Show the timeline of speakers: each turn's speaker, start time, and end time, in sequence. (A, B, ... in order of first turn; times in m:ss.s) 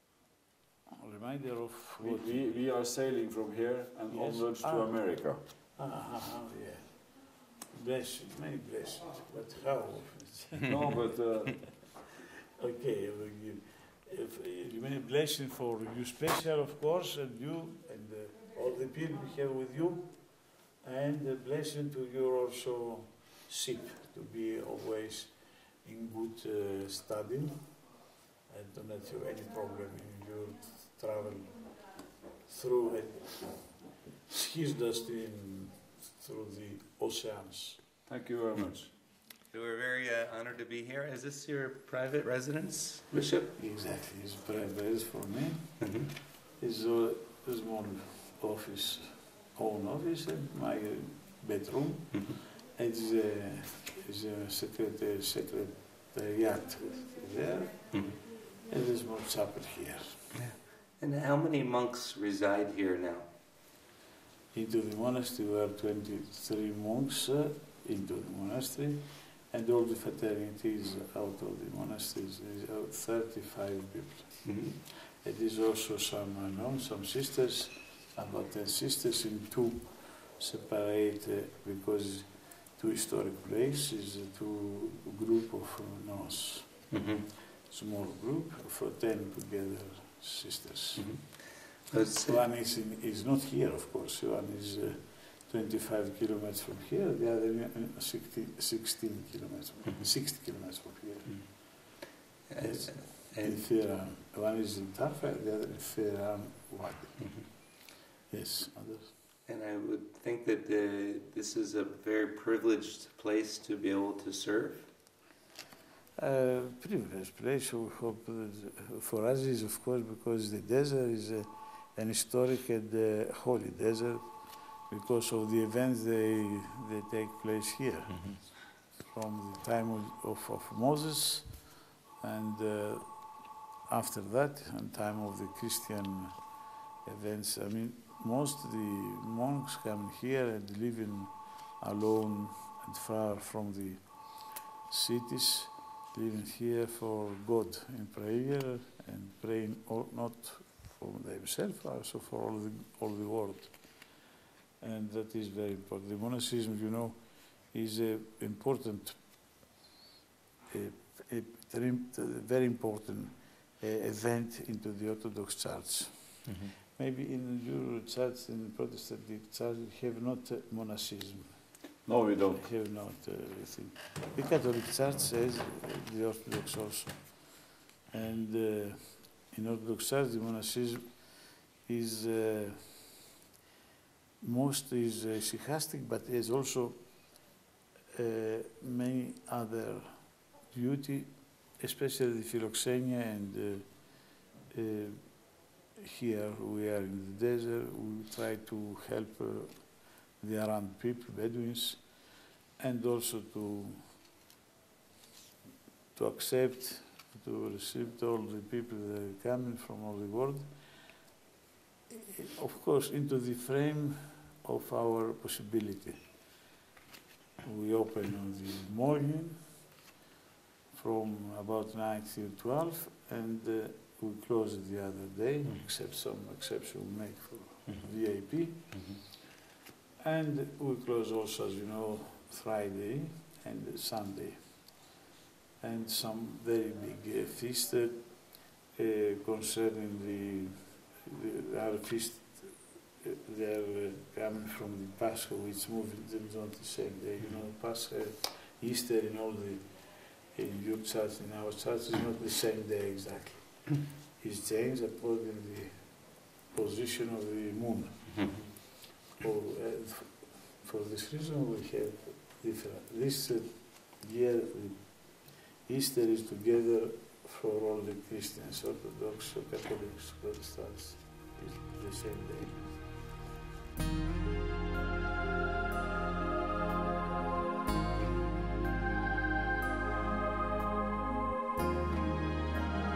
0:00.9-0:02.6 A
0:02.0-0:05.4 B
0:04.1-0:11.1 A
0:10.6-0:11.7 B
0:11.7-0:27.9 A
0:28.5-0:37.8 A
0:38.1-0:38.9 B
0:39.5-0:43.5 C
0:43.5-1:00.3 A
0:45.8-0:46.1 C
1:00.3-1:03.3 C
1:04.5-1:26.8 A
1:14.4-1:14.8 C
1:26.9-1:27.3 C
1:27.4-1:31.2 A
1:31.0-1:32.4 C
1:32.0-1:42.0 A
1:42.3-1:43.6 C
1:42.6-1:47.7 A
1:48.3-1:49.1 A
1:49.5-1:54.9 C
1:56.2-2:34.2 A
2:08.1-2:08.4 C
2:34.8-2:39.4 A
2:40.7-2:51.7 A
2:46.5-2:46.8 C
2:52.1-2:52.6 B
2:52.5-3:03.3 A
3:04.4-3:07.5 A
3:08.1-3:24.2 A
3:26.2-3:30.8 A
3:32.1-3:36.4 A
3:37.6-3:39.9 A
3:40.9-3:49.2 A
3:48.9-3:49.2 C
3:50.2-3:55.1 A
3:55.8-4:18.7 A
4:19.4-4:33.1 A